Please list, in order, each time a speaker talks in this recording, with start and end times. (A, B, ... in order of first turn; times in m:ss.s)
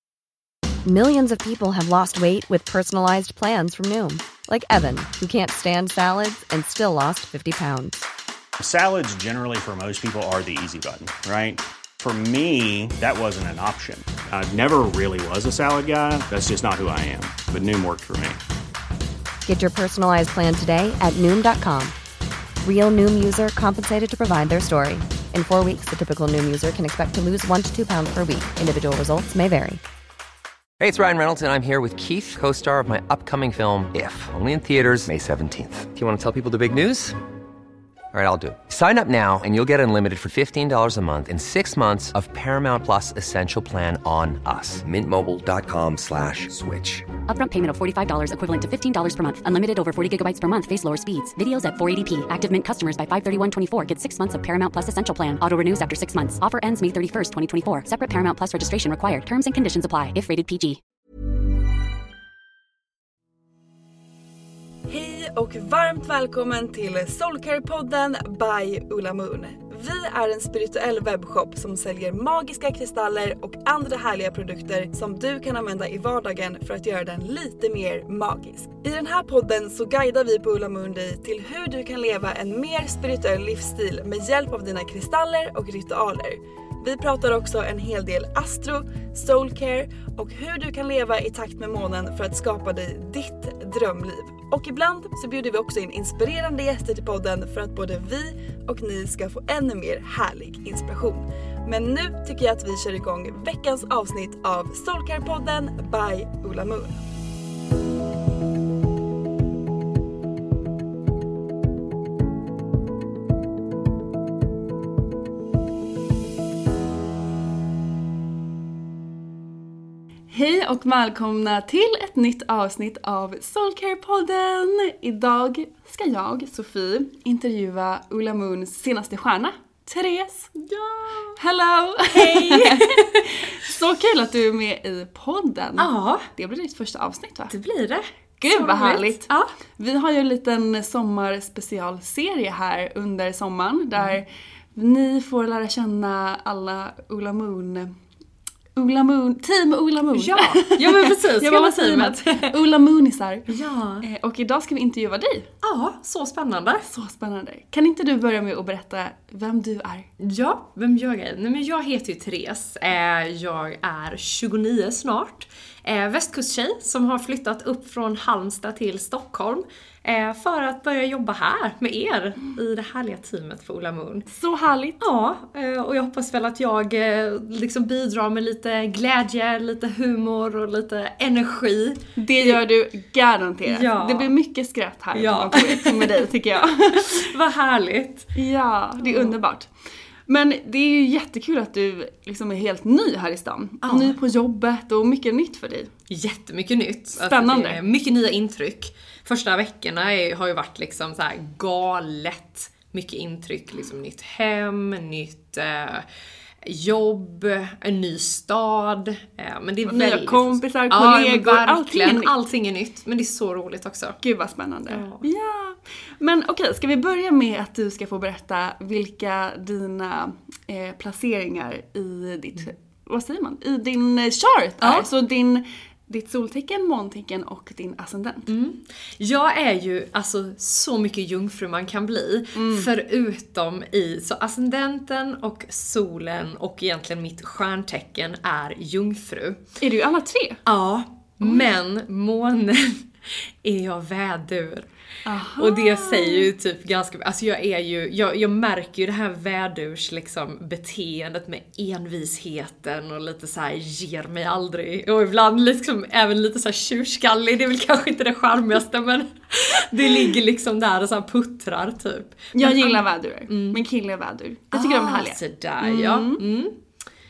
0:00.8-0:08.0 A
0:08.6-0:18.4 B
0:19.5-0:21.9 A
0:22.6-0:29.8 A
0:30.8-0:37.2 C
0:38.1-0:47.1 C
0:47.3-1:00.8 D
1:04.9-1:47.0 E
2:00.3-2:10.5 E
2:10.6-2:11.4 F
2:11.4-2:17.6 E
2:12.1-2:13.2 F
2:15.8-2:16.3 F
2:17.5-2:19.5 F
2:18.4-2:28.0 E
2:28.8-2:33.5 E
2:30.1-2:32.5 F
2:33.5-2:34.1 F
2:34.0-2:35.5 E
2:35.6-2:36.9 F
2:36.9-2:40.1 E
2:40.2-2:54.3 F
2:54.3-2:55.0 E
2:55.0-3:02.6 F
3:02.2-3:07.3 E
3:03.7-3:04.3 F
3:05.1-3:06.3 F
3:06.9-3:08.3 F
3:08.3-3:09.7 E
3:09.0-3:09.4 F
3:10.3-3:15.9 E
3:13.8-3:14.2 F
3:16.1-3:26.1 F
3:17.2-3:17.8 E
3:26.6-3:34.2 F
3:29.9-3:32.3 E
3:34.2-3:48.5 E
3:34.9-3:35.2 F
3:44.8-3:45.1 F
3:48.5-3:59.6 F
3:52.5-3:52.9 E
3:59.8-4:00.6 E
4:00.7-4:04.9 F
4:05.2-4:06.5 E
4:05.6-4:23.8 F
4:22.5-4:26.4 E
4:24.7-4:26.8 F